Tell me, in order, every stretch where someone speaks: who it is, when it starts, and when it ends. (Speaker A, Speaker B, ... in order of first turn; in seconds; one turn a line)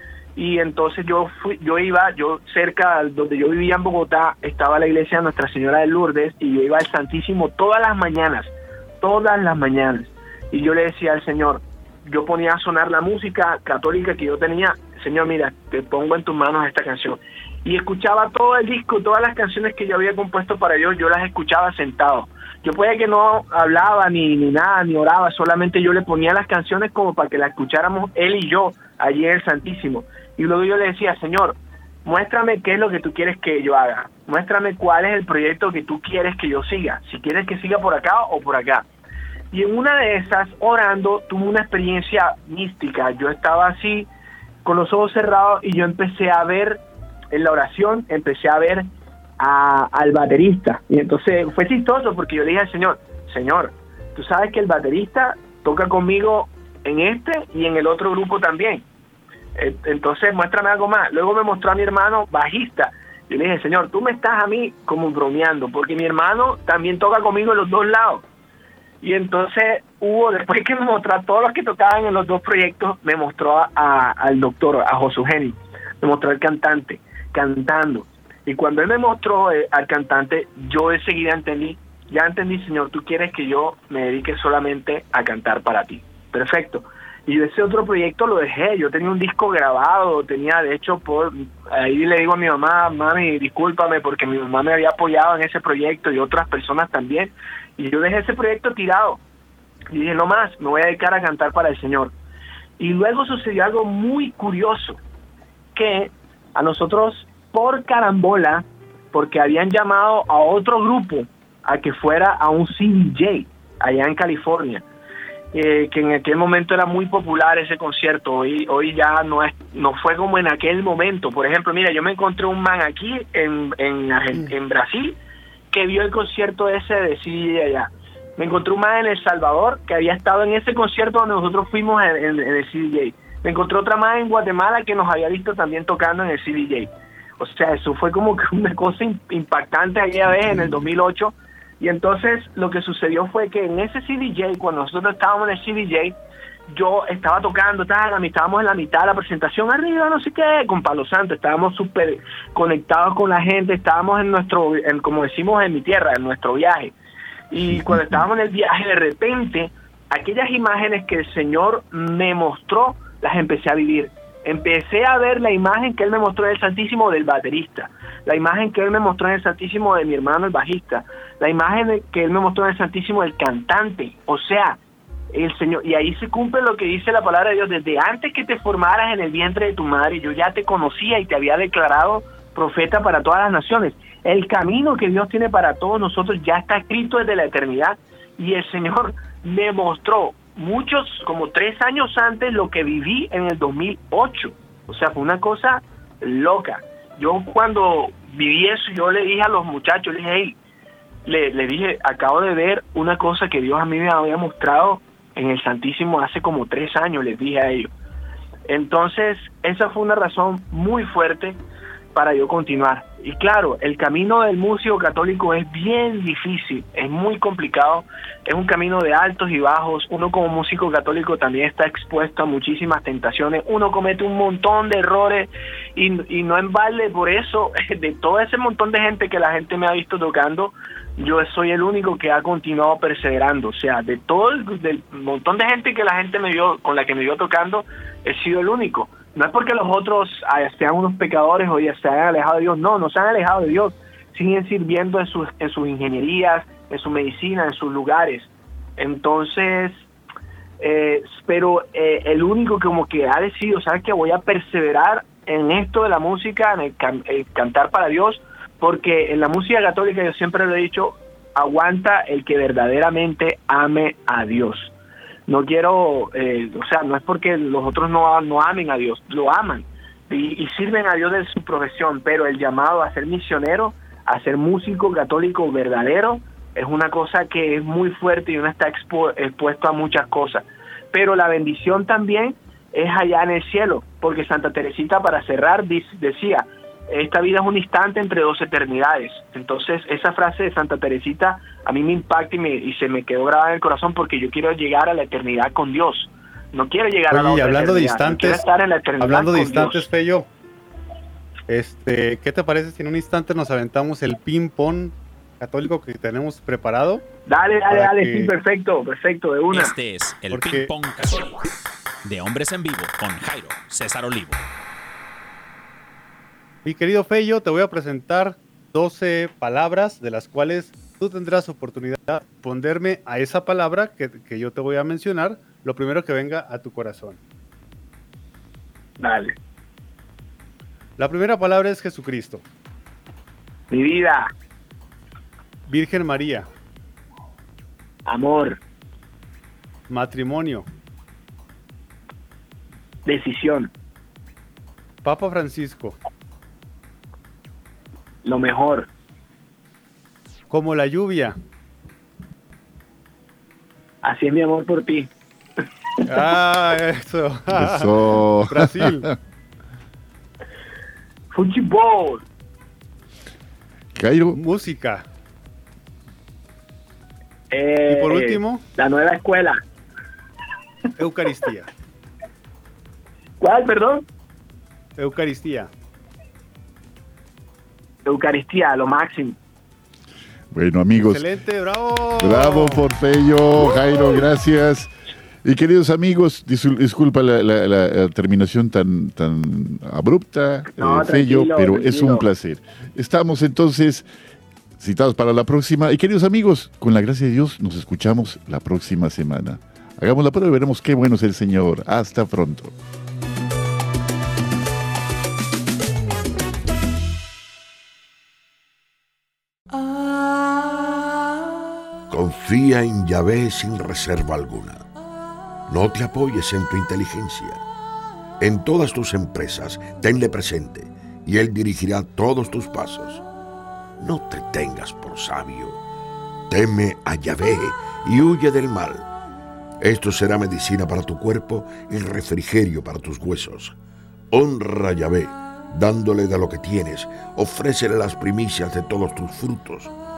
Speaker A: 0.4-38.9
Speaker A: 39.5-44.1
Speaker A: 44.6-46.8
Speaker A: 47.3-48.9
Speaker A: 49.4-58.8
Speaker A: 59.5-68.2
Speaker A: 69.0-99.2
Speaker A: 99.9-102.1
Speaker A: 102.8-105.0
Speaker A: 105.7-114.8
Speaker A: 115.5-125.2
Speaker A: 125.7-146.2
Speaker A: 146.7-156.9
Speaker A: 157.5-174.8
Speaker A: 175.3-200.6
Speaker A: 201.2-207.9
Speaker A: 208.7-211.6
Speaker A: 212.1-250.0
Speaker A: 250.8-264.9
Speaker A: 265.5-300.1
Speaker B: 297.3-298.6
Speaker B: 299.2-300.5
Speaker B: 301.7-307.2
Speaker A: 307.5-309.9
Speaker B: 307.9-308.5
Speaker C: 309.7-311.6
Speaker B: 310.5-310.9
Speaker C: 312.2-314.6
Speaker B: 316.8-327.4
Speaker A: 329.2-329.6
Speaker B: 331.2-332.6
Speaker A: 333.9-334.5
Speaker B: 335.9-336.7
Speaker A: 338.3-338.8
Speaker B: 340.1-340.9
Speaker A: 343.3-343.9
Speaker B: 345.2-346.1
Speaker A: 348.4-349.1
Speaker B: 350.7-351.6
Speaker A: 354.2-355.3
Speaker B: 356.3-359.3
Speaker D: 357.7-359.3
Speaker A: 361.5-362.4
Speaker D: 364.1-364.6
Speaker B: 364.5-365.2
Speaker A: 367.7-369.8
Speaker B: 368.1-368.8
Speaker B: 371.2-371.9
Speaker A: 373.6-374.2
Speaker B: 375.2-375.9
Speaker A: 378.3-379.6
Speaker D: 380.7-381.5
Speaker B: 381.1-383.1
Speaker D: 382.4-385.1
Speaker D: 385.6-394.3
Speaker A: 390.9-392.4
Speaker D: 395.0-402.9
Speaker E: 412.3-415.1
Speaker E: 415.9-417.8
Speaker E: 418.6-423.4
Speaker E: 424.2-426.0
Speaker E: 426.7-429.3
Speaker E: 430.0-433.9
Speaker E: 434.5-440.1